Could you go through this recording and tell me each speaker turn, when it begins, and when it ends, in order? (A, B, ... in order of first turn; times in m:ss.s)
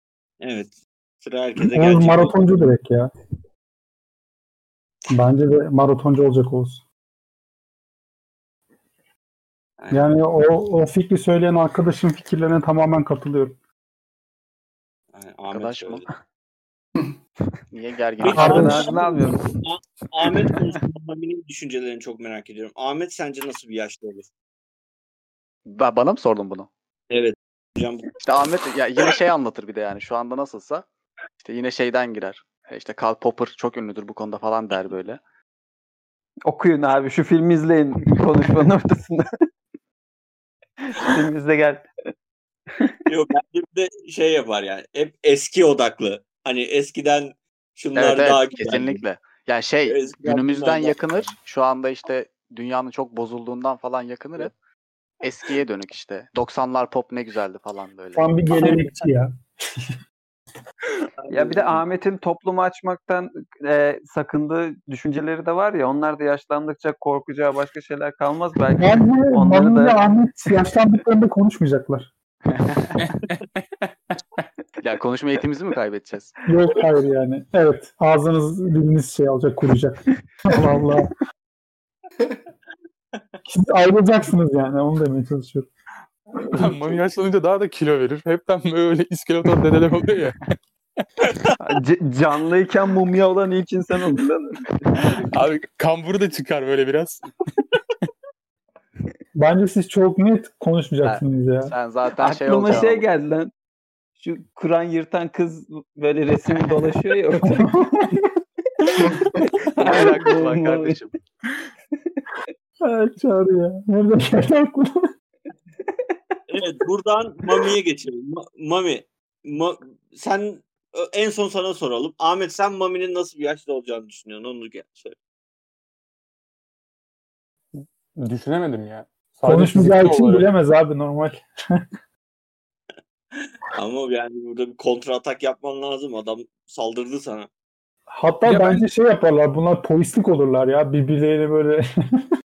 0:00.4-0:02.4 A
0:01.7-0:03.1 B
0:05.1-0:06.8 B
0:09.9-0:13.6 B
0:15.1-0:16.1 A
0:15.5-0:16.1 C
0:17.7-0:18.9 C
0:18.2-0:24.3 A
0:18.3-0:19.5 D
0:18.3-0:18.9 B
0:25.7-0:26.7 C
0:27.1-0:28.1 A
0:28.2-0:30.9 C
0:31.4-0:35.2 C
0:36.5-0:39.4 D
0:40.9-0:41.9 D
0:43.1-0:49.0 A
0:48.0-0:54.5 C
0:49.9-0:51.3 A
0:55.2-0:58.3 C
0:58.1-0:59.8 B
0:58.6-0:59.0 A
1:01.2-1:01.8 A
1:01.3-1:10.0 D
1:08.8-1:12.1 B
1:12.5-1:13.0 C
1:13.0-1:13.9 E
1:14.8-1:16.3 C
1:16.5-1:21.1 B
1:23.5-1:25.7 B
1:26.4-1:27.0 A
1:26.6-1:31.5 E
1:31.6-1:34.7 D
1:35.2-1:37.6 E
1:39.4-1:41.7 B
1:41.0-1:43.0 C
1:42.2-1:43.5 D
1:44.2-1:48.2 D
1:47.4-1:48.1 B
1:48.8-1:51.0 D
1:49.8-1:51.1 C
1:52.8-1:55.1 B
1:56.5-2:05.2 A
2:07.8-2:10.5 E
2:09.4-2:11.5 B
2:13.4-2:17.5 A
2:18.1-2:21.8 B
2:18.5-2:18.8 E